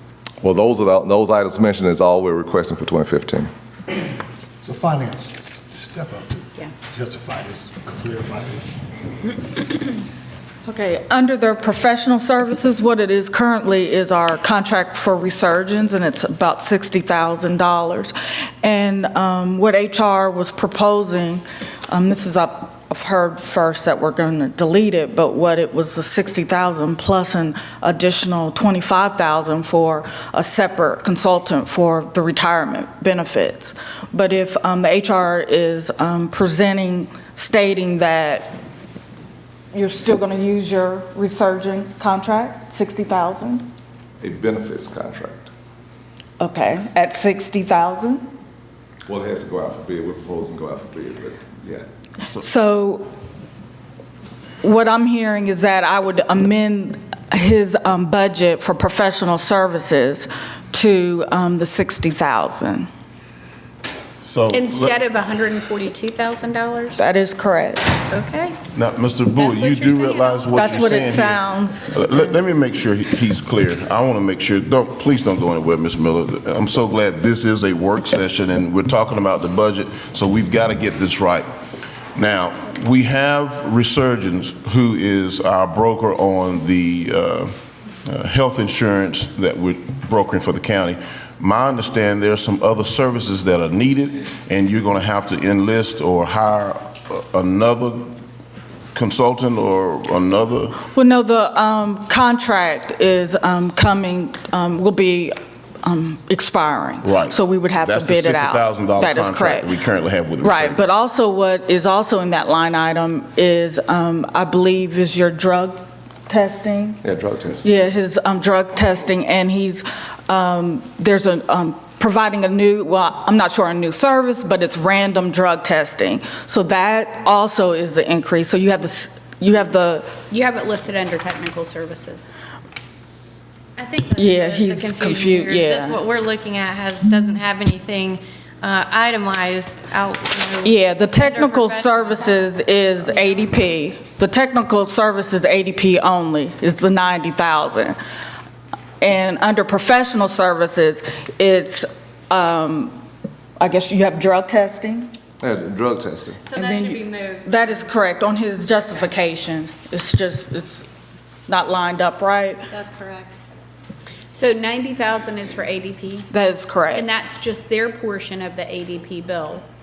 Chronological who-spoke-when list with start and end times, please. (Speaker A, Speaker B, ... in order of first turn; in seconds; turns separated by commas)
Speaker A: 0.4-3.5, Speaker B: 4.6-8.7, Speaker C: 10.7-38.6, Speaker C: 39.7-43.7, Speaker A: 44.2-45.5, Speaker C: 46.4-48.3, Speaker A: 49.1-51.9, Speaker C: 52.3-53.1, Speaker C: 54.6-62.9, Speaker D: 64.2-65.0, Speaker E: 64.5-67.0, Speaker C: 67.0-68.0, Speaker E: 68.1-68.6, Speaker D: 68.7-81.5, Speaker E: 69.4-71.2, Speaker C: 70.5-72.3, Speaker D: 82.2-87.5, Speaker D: 88.0-98.2, Speaker D: 98.9-100.8, Speaker C: 100.9-109.7, Speaker D: 107.0-110.8, Speaker C: 110.4-117.0, Speaker A: 117.0-117.7, Speaker C: 117.6-130.1, Speaker E: 130.3-132.3, Speaker F: 133.8-142.5, Speaker C: 134.1-136.1, Speaker C: 140.6-148.0, Speaker C: 149.0-153.0, Speaker C: 153.6-155.1, Speaker A: 155.4-156.5, Speaker F: 156.5-157.9, Speaker C: 156.5-160.9, Speaker C: 161.5-162.7, Speaker F: 162.7-163.3, Speaker E: 164.3-166.3, Speaker C: 166.3-167.1, Speaker E: 166.9-169.6